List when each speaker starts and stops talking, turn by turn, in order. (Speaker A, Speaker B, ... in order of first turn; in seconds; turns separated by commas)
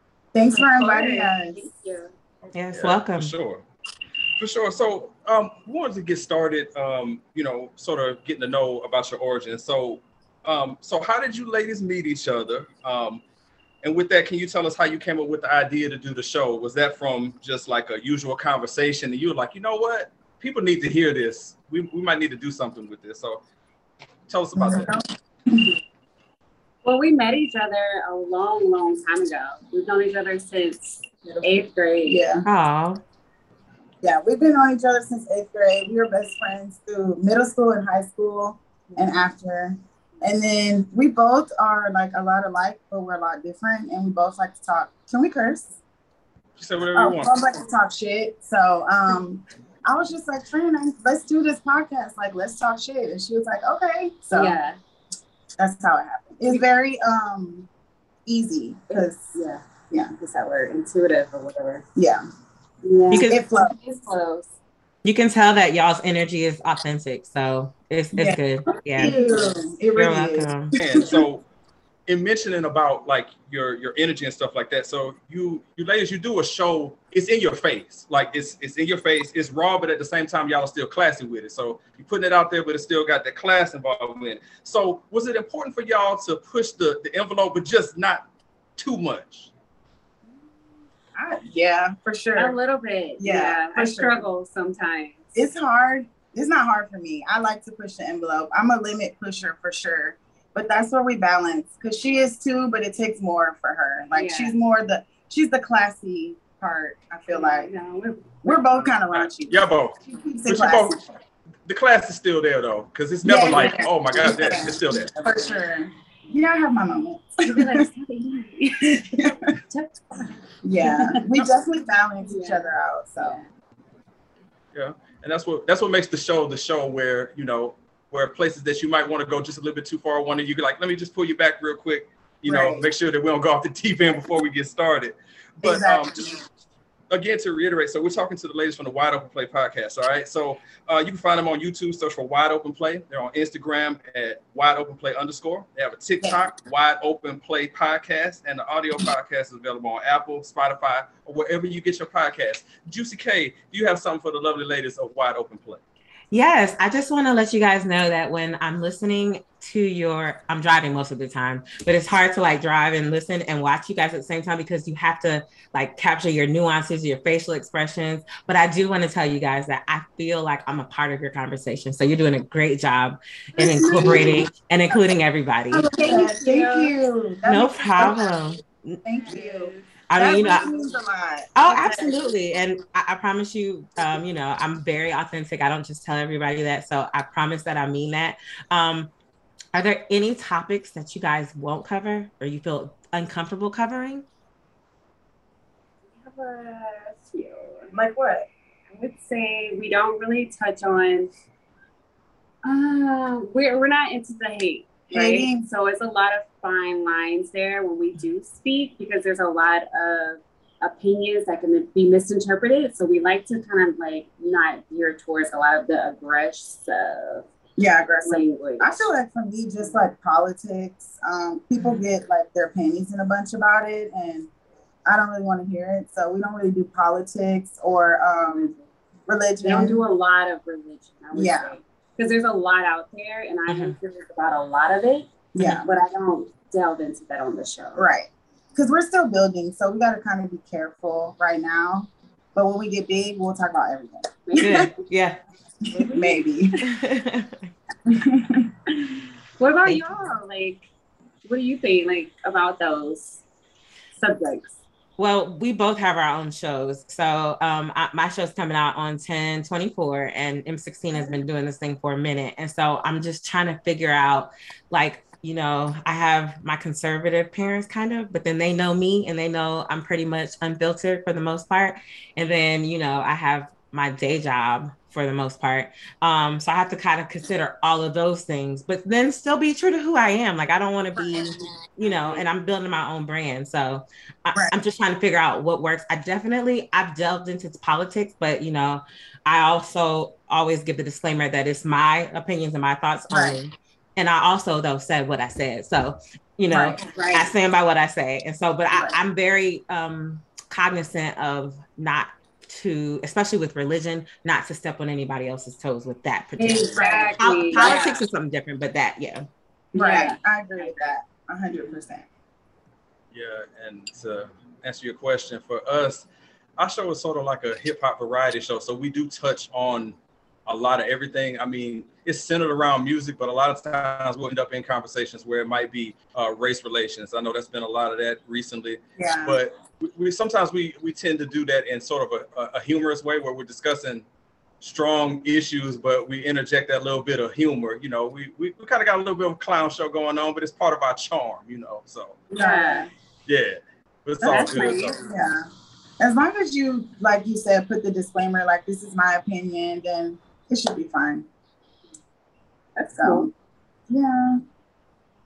Speaker A: 0.3-1.7, Speaker B: 0.5-2.1, Speaker C: 2.5-3.6, Speaker D: 2.5-3.3, Speaker C: 4.4-13.2, Speaker C: 13.8-23.4, Speaker C: 24.3-24.9, Speaker A: 24.6-25.7, Speaker B: 26.8-32.3, Speaker A: 32.0-32.4, Speaker D: 32.4-33.0, Speaker A: 34.0-45.8, Speaker B: 38.9-39.2, Speaker C: 46.6-47.3, Speaker A: 46.9-54.6, Speaker B: 54.3-54.8, Speaker A: 55.6-57.7, Speaker A: 58.2-59.3, Speaker B: 58.9-59.6, Speaker B: 60.1-61.8, Speaker A: 62.0-62.2, Speaker B: 62.8-64.5, Speaker D: 63.1-63.4, Speaker A: 63.2-63.7, Speaker D: 65.0-69.1, Speaker A: 68.1-71.2, Speaker B: 69.0-69.4, Speaker D: 69.9-70.7, Speaker C: 70.8-71.4, Speaker C: 72.1-88.2, Speaker C: 88.8-89.5, Speaker A: 91.1-92.6, Speaker B: 92.3-95.3, Speaker A: 93.2-94.2, Speaker A: 95.3-107.7, Speaker B: 104.1-104.5, Speaker B: 107.3-108.9, Speaker A: 108.4-111.0, Speaker C: 109.1-111.0, Speaker C: 111.7-115.1, Speaker A: 113.2-117.8, Speaker B: 117.5-121.2, Speaker A: 118.8-119.4, Speaker A: 120.6-123.4, Speaker B: 122.2-123.5, Speaker C: 124.7-136.3, Speaker A: 132.4-132.8, Speaker A: 135.6-136.3, Speaker C: 137.1-155.8, Speaker D: 156.3-175.9, Speaker A: 173.6-174.5, Speaker B: 173.7-174.4, Speaker A: 175.7-178.3, Speaker B: 175.9-176.9, Speaker D: 177.4-179.0, Speaker A: 179.0-182.3, Speaker B: 179.2-179.8, Speaker D: 180.1-180.7, Speaker D: 181.6-189.1, Speaker D: 189.7-194.2, Speaker B: 196.1-197.9, Speaker A: 197.9-198.5, Speaker B: 198.9-201.3, Speaker B: 202.6-217.5, Speaker A: 205.1-205.6, Speaker A: 217.8-224.5, Speaker B: 218.2-219.1, Speaker A: 225.1-228.7, Speaker B: 228.4-228.8, Speaker A: 229.3-230.0, Speaker B: 229.6-238.0, Speaker A: 231.3-231.7, Speaker D: 233.7-233.9, Speaker A: 235.5-235.8, Speaker A: 237.9-244.9, Speaker B: 244.4-244.9, Speaker D: 244.6-245.4, Speaker B: 245.9-246.4, Speaker A: 245.9-246.8, Speaker D: 246.8-247.7, Speaker A: 248.1-248.7, Speaker B: 249.6-250.8, Speaker B: 251.4-253.4, Speaker B: 254.1-254.8, Speaker D: 255.2-309.4, Speaker A: 281.1-281.5, Speaker A: 293.3-293.6, Speaker A: 296.7-297.4, Speaker A: 298.9-299.1, Speaker B: 306.6-308.2, Speaker A: 306.9-308.1, Speaker B: 309.9-311.0, Speaker A: 309.9-312.3, Speaker C: 313.3-316.2, Speaker C: 316.8-320.1, Speaker C: 320.6-334.2, Speaker A: 329.2-329.6, Speaker C: 334.8-342.4, Speaker B: 342.5-343.1, Speaker A: 342.5-343.1, Speaker C: 343.5-345.2, Speaker A: 344.4-345.6, Speaker B: 344.4-345.3, Speaker A: 346.2-351.5, Speaker B: 352.9-353.5, Speaker A: 353.1-353.5, Speaker A: 354.1-354.6